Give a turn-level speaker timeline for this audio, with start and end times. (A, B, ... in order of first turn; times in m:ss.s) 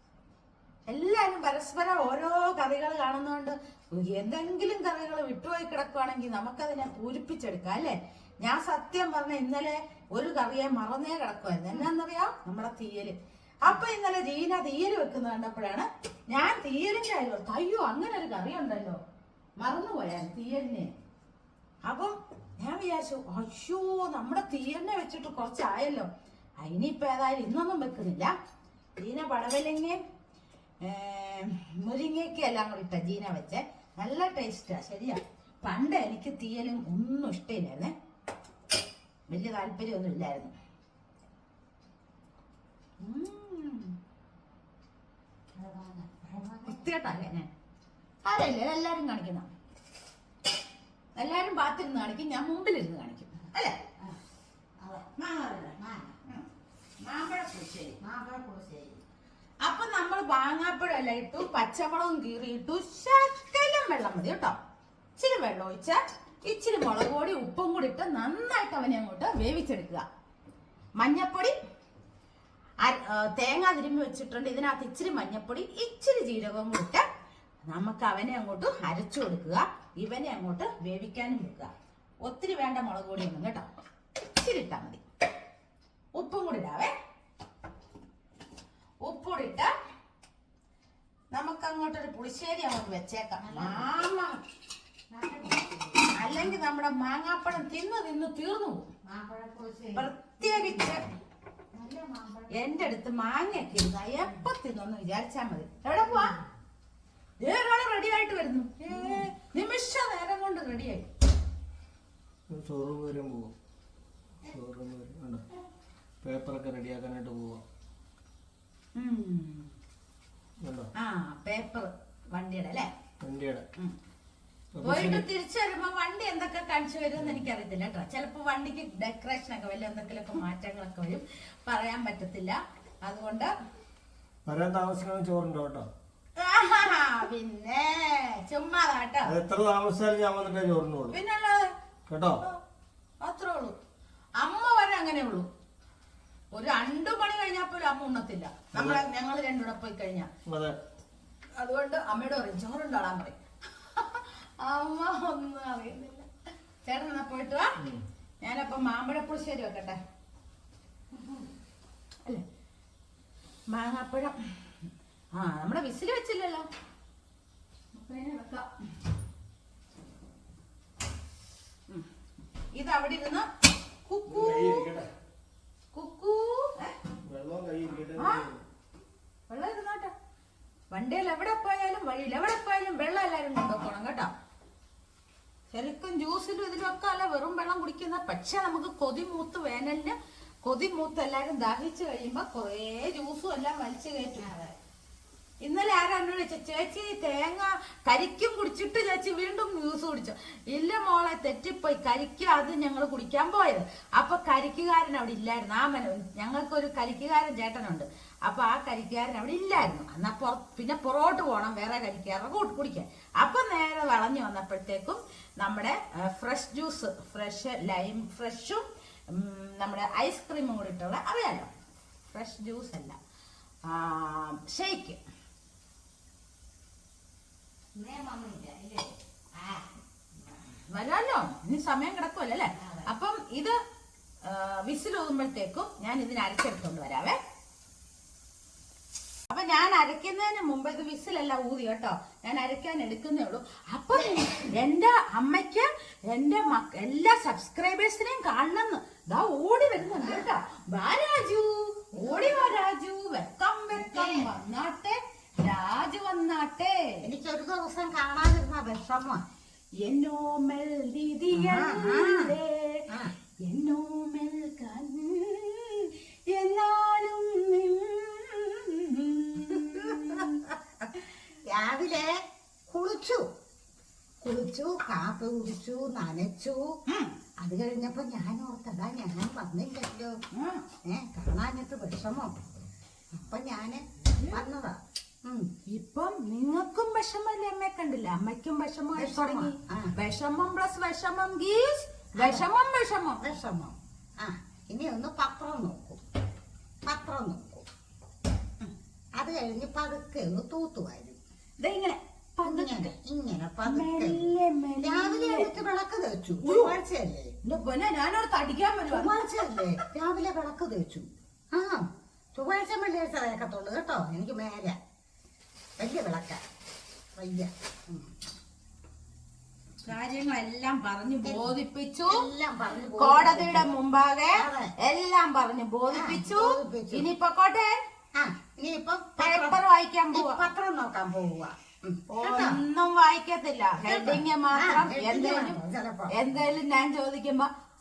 0:00.9-0:19.0 A
0:19.6-0:20.9 A
0:21.8-0:26.1 A
0:26.6-0:28.4 A
0:29.0-0:30.0 A
0:30.8-0:37.9 A
0:39.3-0:40.5 A
0:43.0-0:43.9 A
0:45.6-0:46.8 B
0:46.6-0:47.5 A
0:48.2-0:49.5 A
0:51.2-0:53.8 A
0:54.8-0:55.1 B
0:55.2-0:56.4 A
0:55.8-0:56.2 B
0:57.0-0:58.0 A
0:58.0-0:59.0 B
0:59.6-1:04.6 A
1:05.2-1:10.0 A
1:11.0-1:11.5 A
1:12.8-1:17.0 A
1:17.6-1:23.7 A
1:24.2-1:25.0 A
1:26.2-1:26.9 A
1:29.0-1:29.7 A
1:31.3-1:34.4 A
1:33.4-1:33.9 B
1:35.1-1:36.5 B
1:36.1-1:38.9 A
1:39.0-1:41.0 B
1:39.9-1:41.0 A
1:41.7-1:42.7 B
1:42.5-1:46.4 A
1:46.0-1:46.4 B
1:47.4-1:51.1 A
1:48.9-1:49.3 B
1:52.5-1:53.5 C
1:54.4-1:55.4 C
1:56.2-1:57.6 C
1:59.0-1:59.7 A
2:00.6-2:00.9 C
2:00.9-2:02.9 A
2:03.2-2:03.6 C
2:04.8-2:05.2 C
2:04.8-2:13.5 A
2:14.4-2:15.9 C
2:16.4-2:19.3 A
2:19.2-2:21.2 C
2:21.1-2:21.7 A
2:22.1-2:22.4 C
2:23.2-2:23.8 A
2:24.4-2:25.5 A
2:26.5-2:30.3 A
2:28.7-2:29.0 C
2:30.4-2:30.8 C
2:31.6-2:36.3 A
2:36.8-2:37.8 A
2:38.4-2:40.0 A
2:43.7-2:44.4 A
2:45.3-2:46.7 A
2:47.9-2:48.7 A
2:52.8-2:53.5 A
2:54.0-2:54.9 A
2:54.3-2:55.1 C
2:55.9-2:56.9 A
2:57.2-2:58.6 C
2:58.2-2:58.4 A
2:59.5-3:00.1 A
3:00.9-3:04.3 A
3:05.7-3:14.7 A
3:15.6-3:41.7 A
3:42.3-3:43.2 A
3:43.9-3:45.2 A
3:48.0-3:49.9 B
3:50.9-3:53.8 A
3:52.8-3:53.1 B
3:54.4-3:57.4 A
3:59.5-4:17.2 A
4:12.1-4:12.8 B
4:13.9-4:14.5 B
4:17.2-4:19.4 B
4:20.0-4:23.1 A
4:21.5-4:22.6 B
4:23.1-4:23.3 B
4:23.6-4:30.7 A
4:29.6-4:30.6 B
4:31.6-4:33.5 B
4:34.4-4:37.0 B
4:37.1-4:37.4 A
4:37.6-4:40.4 B
4:40.5-4:40.8 A
4:41.0-4:45.6 B
4:45.6-4:53.4 A
4:49.2-4:50.1 B
4:52.4-4:52.7 B
4:53.4-4:56.2 B
4:57.0-4:57.9 B
4:59.4-5:01.4 B
5:01.8-5:03.1 A
5:02.6-5:07.5 B
5:03.8-5:05.8 A
5:06.6-5:07.0 A
5:07.6-5:09.9 A
5:09.1-5:15.0 B
5:16.0-5:16.6 B
5:17.3-5:18.3 B
5:20.0-5:22.5 A
5:21.4-5:21.8 B
5:22.3-5:24.0 B
5:23.1-5:28.0 A
5:24.5-5:24.9 B
5:26.1-5:27.3 B
5:28.3-5:29.8 B
5:29.4-5:30.6 A
5:30.3-5:32.8 B
5:32.3-5:37.7 A
5:34.0-5:36.7 B